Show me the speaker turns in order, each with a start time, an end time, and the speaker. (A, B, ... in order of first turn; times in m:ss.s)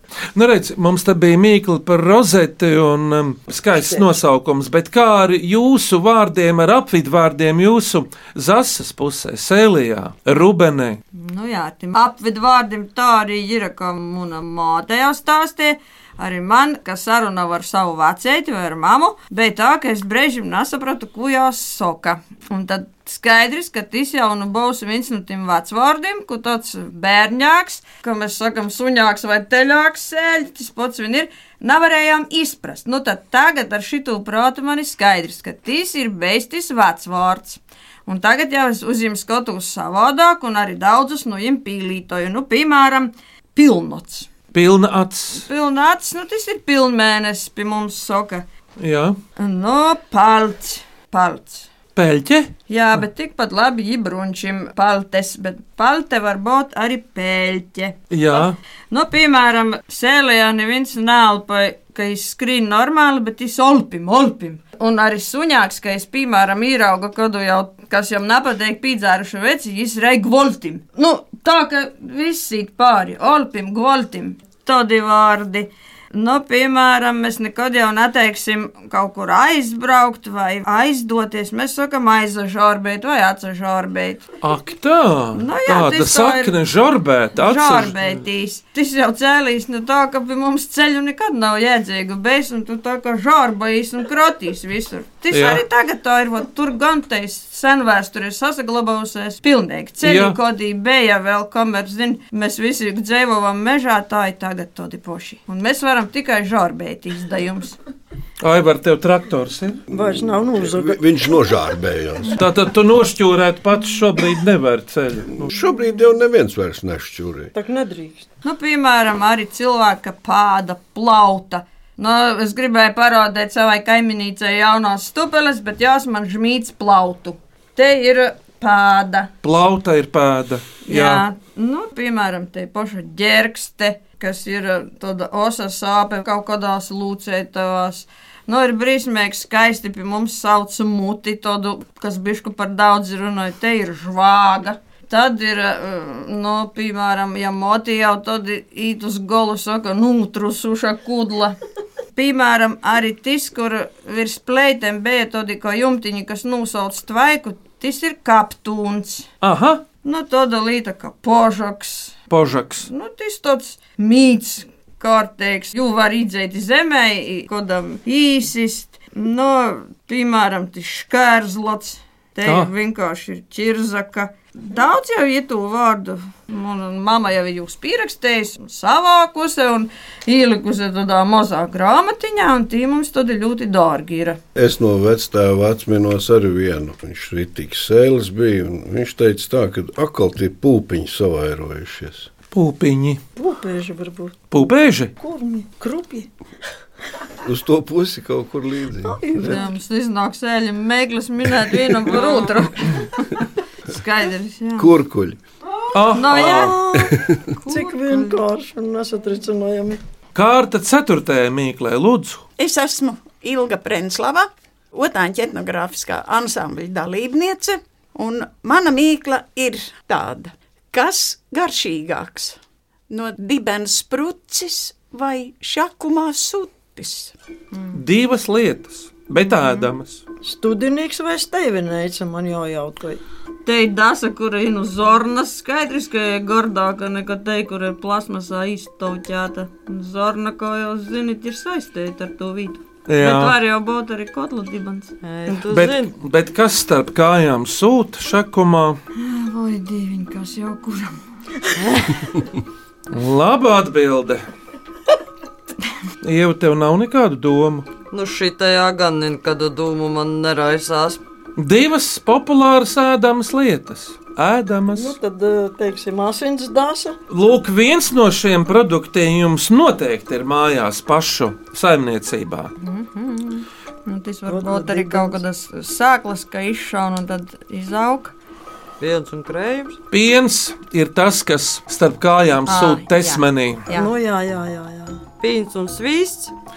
0:00.3-0:11.0 A
0:03.8-0:04.1 B
0:11.1-0:44.3 C
0:44.5-0:45.4 A
0:45.3-0:48.4 C
0:48.8-0:49.2 A
0:49.4-0:51.7 C
0:52.0-0:53.0 A
0:52.7-1:24.3 C
0:58.1-0:58.6 A
1:24.4-1:28.0 A
1:25.3-1:26.5 C
1:27.4-1:47.8 C
1:35.3-1:35.6 A
1:40.0-1:40.4 A
1:48.4-1:49.8 A
1:49.9-1:51.0 B
1:49.9-1:52.4 D
1:52.3-1:55.5 A
1:55.3-1:57.5 D
1:57.5-1:58.3 B
1:58.4-2:09.3 C
2:09.4-2:11.2 A
2:10.8-2:31.6 C
2:32.2-2:39.3 C
2:39.4-2:39.8 A
2:40.0-2:42.2 C
2:42.3-2:42.9 A
2:42.8-3:04.4 C
2:52.4-2:52.7 A
3:04.5-3:12.3 D
3:12.5-3:13.2 A
3:13.4-3:14.4 B
3:14.5-3:15.1 A
3:15.2-3:16.3 B
3:17.4-3:19.2 D
3:19.0-3:19.7 B
3:19.4-3:24.9 C
3:24.8-3:25.4 D
3:25.9-3:26.8 A
3:26.1-3:26.8 C
3:26.3-3:30.0 B
3:26.9-3:27.4 D
3:27.5-3:28.4 C
3:30.3-3:32.5 A
3:32.6-3:47.3 E
3:47.9-3:50.2 A
3:50.4-3:53.2 B
3:53.6-4:05.1 C
4:03.1-4:03.5 A
4:05.2-4:06.1 F
4:05.7-4:09.0 A
4:09.2-4:11.2 C
4:13.1-4:14.4 A
4:16.2-4:17.9 A
4:18.1-4:21.2 F
4:21.6-4:25.2 A
4:24.9-4:27.2 B
4:27.3-4:32.7 A
4:32.8-4:38.3 C
4:34.5-4:35.4 B
4:39.0-4:40.0 F
4:40.1-4:43.8 A
4:42.6-4:44.1 C
4:43.9-4:45.2 B
4:45.4-4:46.5 F